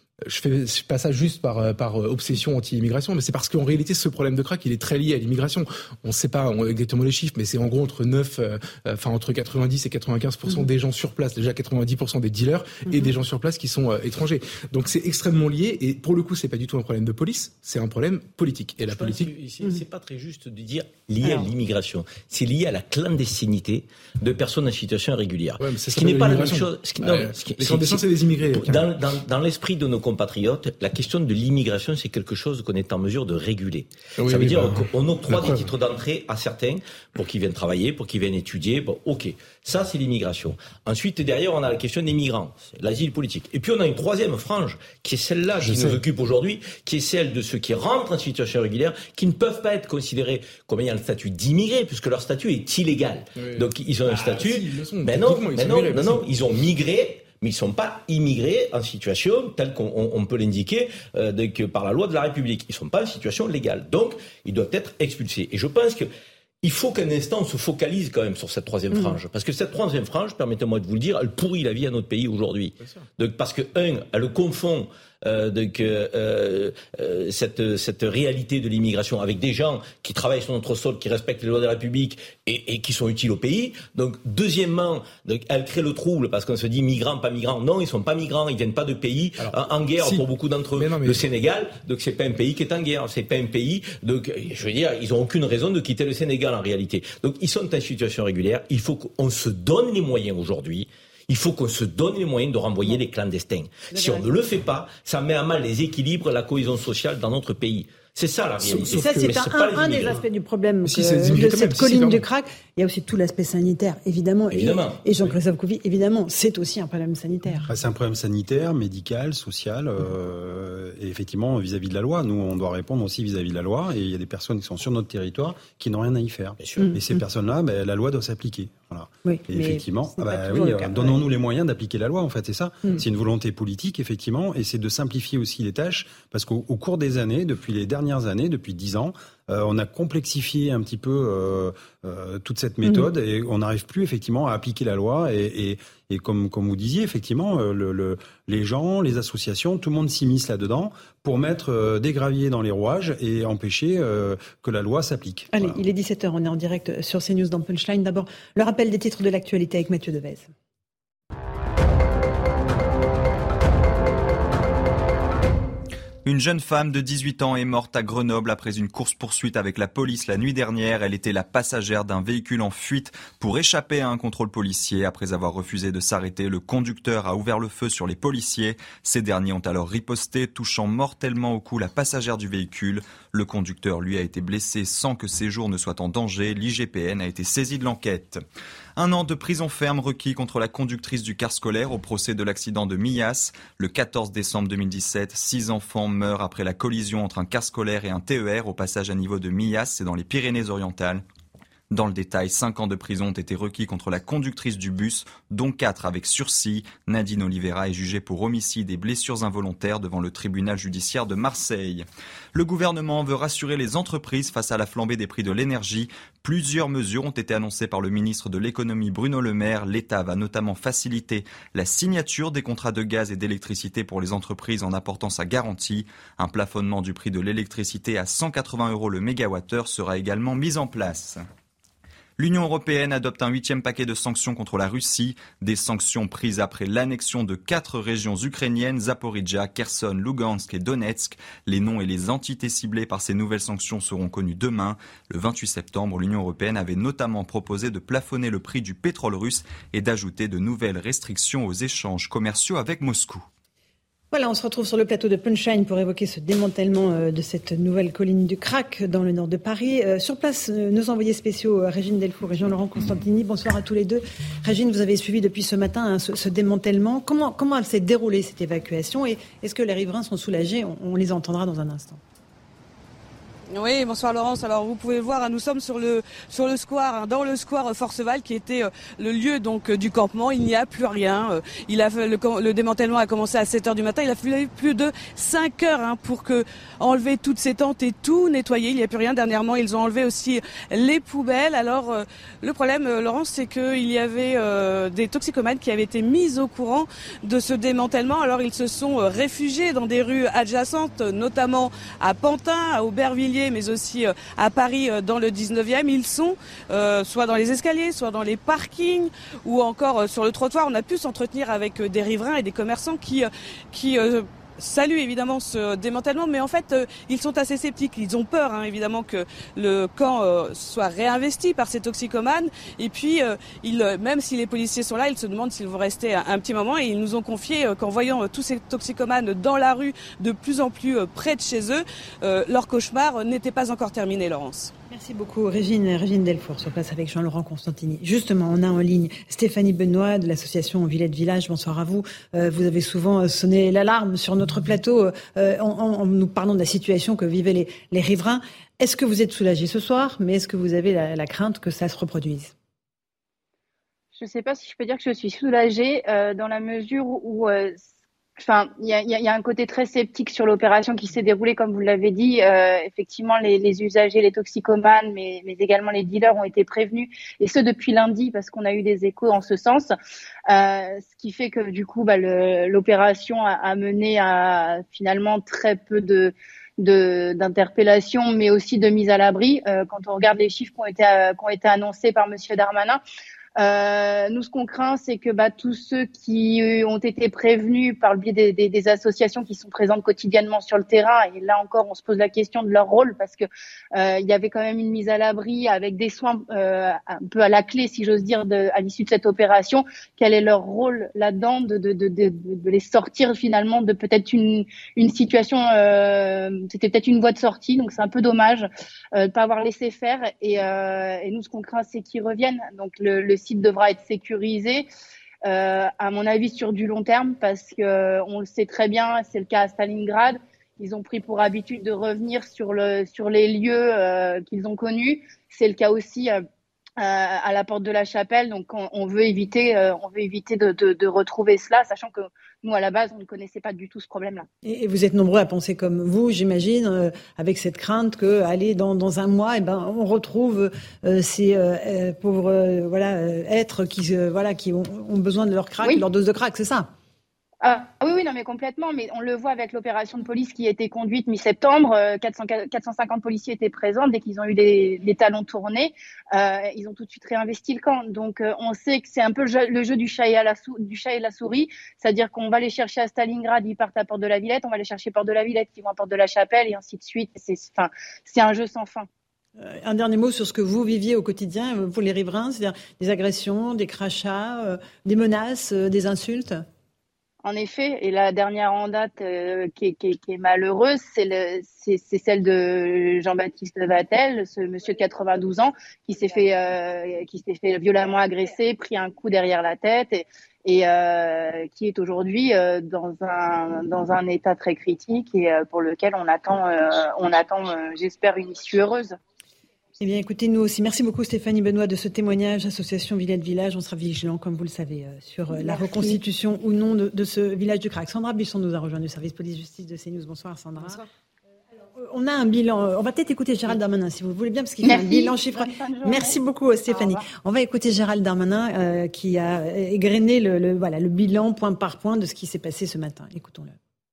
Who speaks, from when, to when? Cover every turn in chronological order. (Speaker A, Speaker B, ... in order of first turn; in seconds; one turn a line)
Speaker A: 0.2-19.3
Speaker B: 12.9-13.1
Speaker C: 18.9-28.0
Speaker B: 21.2-21.5
Speaker A: 25.6-28.9
Speaker C: 28.5-66.1
Speaker A: 34.2-35.7
Speaker A: 45.6-46.0
Speaker A: 53.4-56.2
Speaker C: 66.6-110.2
Speaker B: 68.9-69.2
Speaker A: 89.4-91.2
Speaker B: 103.9-104.3
Speaker A: 108.6-110.1
Speaker B: 108.8-117.7
Speaker A: 110.8-112.2
Speaker C: 114.5-115.0
Speaker D: 117.7-155.8
Speaker C: 126.6-126.9
Speaker B: 126.8-127.2
Speaker B: 129.2-131.2
Speaker B: 155.5-160.5
Speaker E: 166.2-188.4
Speaker E: 189.0-201.2
Speaker E: 201.9-231.4
Speaker E: 232.4-253.4
Speaker B: 254.3-272.2
Speaker F: 273.7-334.9
Speaker B: 335.1-352.7
Speaker G: 354.3-358.0
Speaker G: 358.6-370.1
Speaker G: 370.7-383.2
Speaker G: 383.8-415.1
Speaker G: 415.6-426.6
Speaker G: 427.2-434.7
Speaker B: 434.8-447.1
Speaker G: 447.8-469.3
Speaker B: 469.8-476.8
Speaker G: 477.6-499.4
Speaker B: 500.2-511.2
Speaker B: 512.1-523.9
Speaker G: 515.0-516.5